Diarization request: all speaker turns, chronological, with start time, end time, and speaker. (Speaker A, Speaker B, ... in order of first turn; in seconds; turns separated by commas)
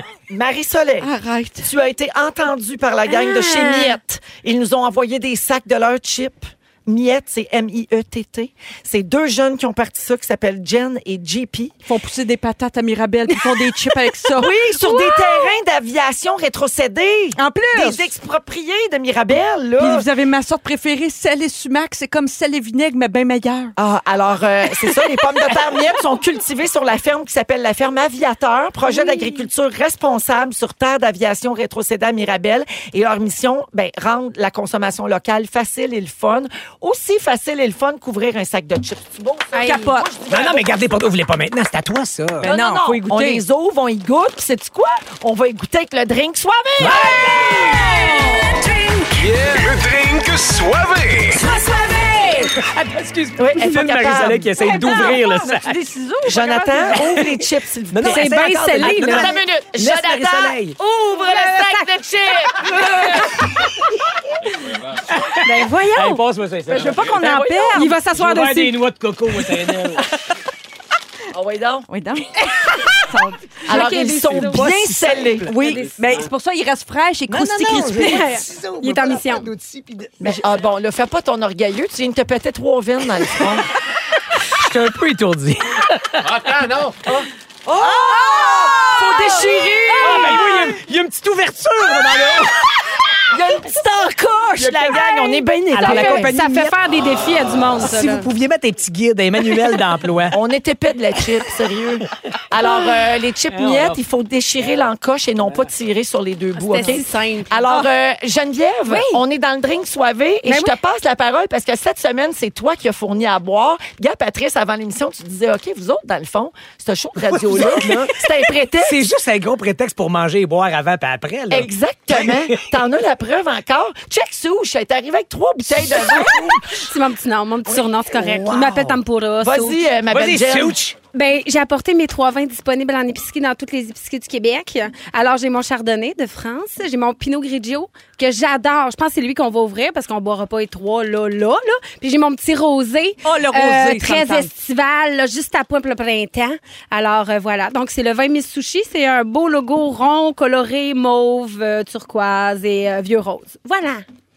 Speaker A: 0.3-1.1, Speaker B: 1.0-1.7, Speaker A: 1.6-11.8, Speaker C: 3.1-4.0, Speaker B: 11.9-14.5, Speaker A: 14.4-20.1, Speaker C: 14.8-15.6, Speaker B: 17.4-18.1, Speaker B: 19.8-23.7, Speaker A: 23.8-40.7, Speaker C: 39.5-40.0, Speaker B: 39.6-40.1, Speaker D: 40.3-42.5, Speaker A: 42.4-47.0, Speaker B: 42.4-43.4, Speaker D: 46.8-48.5, Speaker E: 49.2-51.5, Speaker D: 52.3-55.7, Speaker A: 53.4-54.5, Speaker B: 54.6-57.2, Speaker A: 56.2-63.3, Speaker D: 57.9-60.8, Speaker C: 58.0-59.4, Speaker C: 61.1-61.9, Speaker D: 65.0-67.4, Speaker C: 65.4-66.2, Speaker B: 66.7-68.0, Speaker C: 67.2-68.8, Speaker D: 68.1-70.0, Speaker A: 71.3-71.9, Speaker B: 71.9-78.2, Speaker A: 73.7-75.5, Speaker C: 73.7-74.8, Speaker C: 75.6-75.9, Speaker D: 77.3-80.4, Speaker C: 77.9-79.5, Speaker A: 80.2-83.7, Speaker D: 84.5-86.8, Speaker A: 87.0-90.4, Speaker D: 88.1-89.3, Speaker C: 88.4-90.4, Speaker D: 90.0-92.7, Speaker A: 93.3-96.3, Speaker C: 95.3-98.3, Speaker D: 95.7-96.7, Speaker D: 97.8-100.4, Speaker A: 100.3-119.0, Speaker D: 103.5-104.0, Speaker C: 106.6-107.8, Speaker C: 108.9-109.2, Speaker C: 110.5-110.8, Speaker D: 117.2-122.6, Speaker A: 121.5-126.9, Speaker C: 126.8-129.8, Speaker D: 128.1-129.0, Speaker A: 129.4-130.8, Speaker D: 130.1-131.0, Speaker C: 131.1-154.0, Speaker B: 143.2-144.5